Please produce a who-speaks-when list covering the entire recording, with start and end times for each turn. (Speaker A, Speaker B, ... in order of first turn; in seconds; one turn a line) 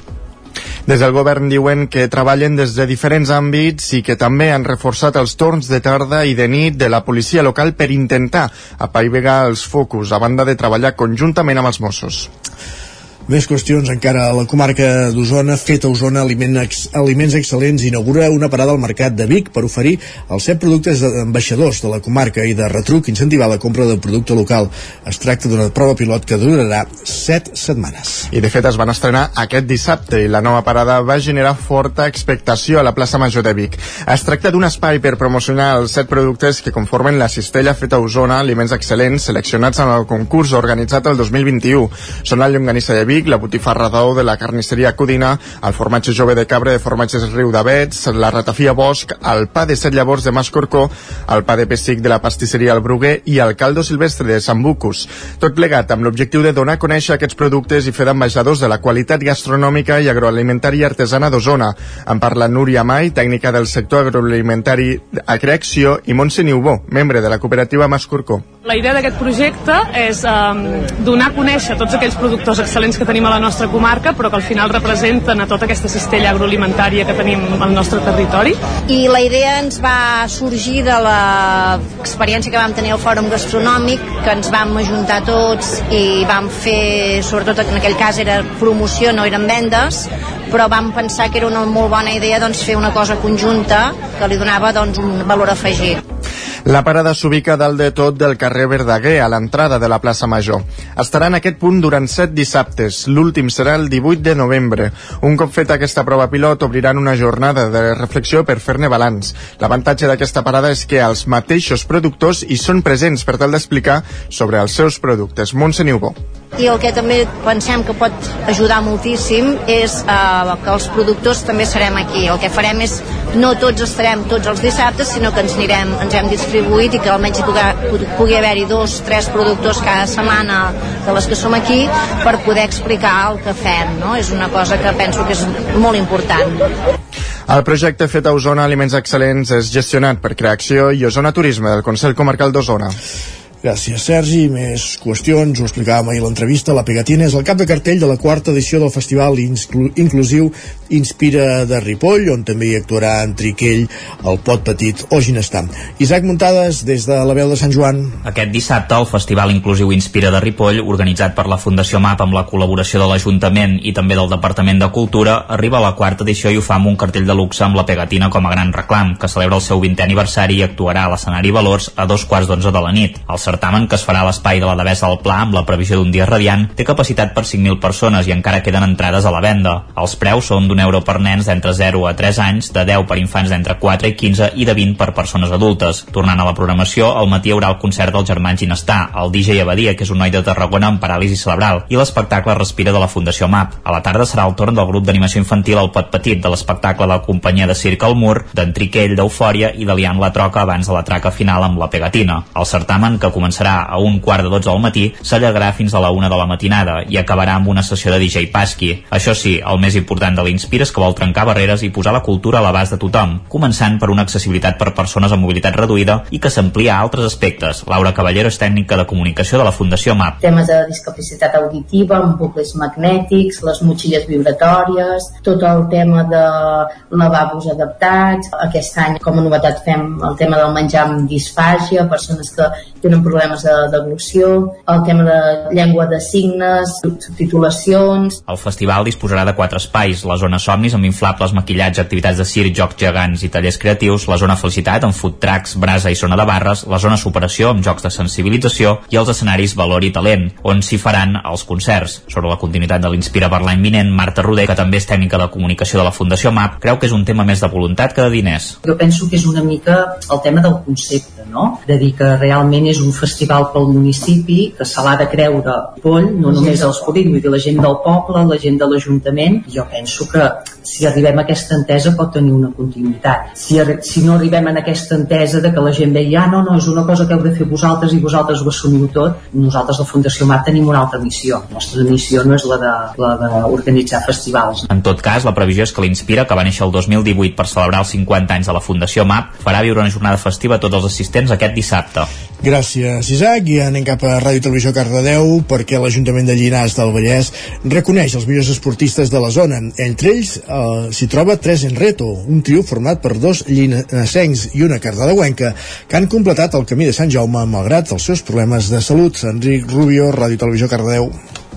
Speaker A: 0.9-12.3
Speaker B: 13.3-28.3
Speaker A: 28.3-68.5
Speaker C: 68.6-78.6
Speaker D: 78.9-96.0
Speaker A: 96.7-116.2
Speaker D: 116.5-136.7
Speaker A: 137.5-142.9
Speaker B: 143.6-158.2
Speaker E: 158.2-220.4
Speaker F: 220.4-238.4
Speaker E: 238.5-258.8
Speaker G: 258.8-284.9
Speaker E: 284.9-292.3
Speaker B: 292.6-311.3